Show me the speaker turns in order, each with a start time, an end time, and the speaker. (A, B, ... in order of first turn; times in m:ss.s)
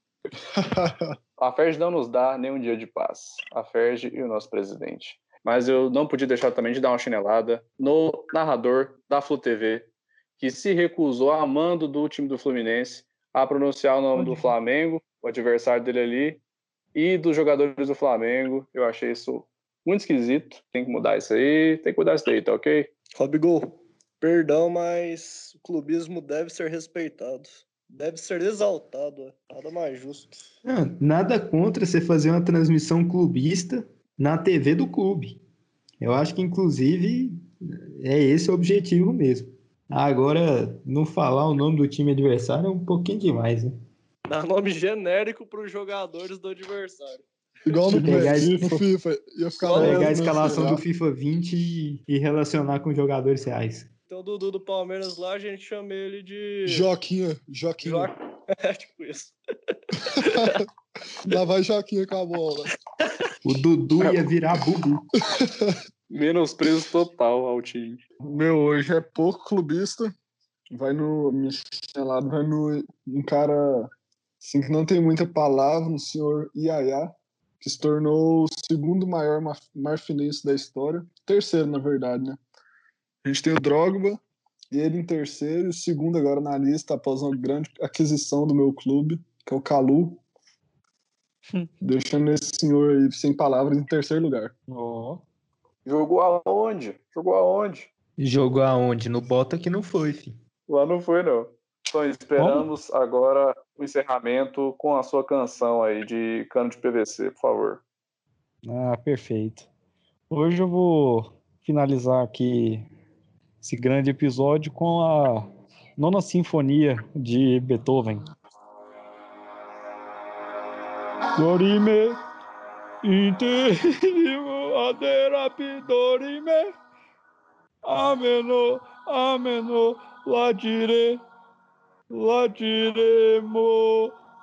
0:00.5-0:01.1 A
0:01.4-0:09.9 B
0:10.4-0:16.4 B
0:14.2-0:14.5 C
0:17.0-0:22.9 B
0:23.2-0:30.4 D
0:30.6-0:35.4 E
0:36.0-0:43.7 E
0:44.3-0:47.3 D
0:47.7-0:50.8 A
0:47.9-0:48.3 D
0:47.9-0:48.8 E
0:49.6-0:50.8 D
0:49.7-0:53.9 E
0:54.1-0:56.9 D
0:56.6-0:58.1 A
0:57.8-1:00.6 D
1:00.0-1:00.6 A
1:01.2-1:02.8 A
1:03.4-1:05.1 E
1:05.4-1:05.8 A
1:06.1-1:08.0 B
1:08.2-1:10.2 A
1:10.7-1:22.4 A
1:23.2-1:30.2 A
1:31.8-1:34.6 A
1:34.7-1:35.2 C
1:35.8-1:37.9 B
1:38.2-1:40.4 E
1:40.7-1:47.8 B
1:42.4-1:42.6 C
1:48.6-1:49.7 C
1:50.3-1:52.9 C
1:53.6-1:58.3 C
2:01.4-2:02.2 C
2:03.0-2:06.7 C
2:07.8-2:11.2 C
2:12.1-2:14.2 C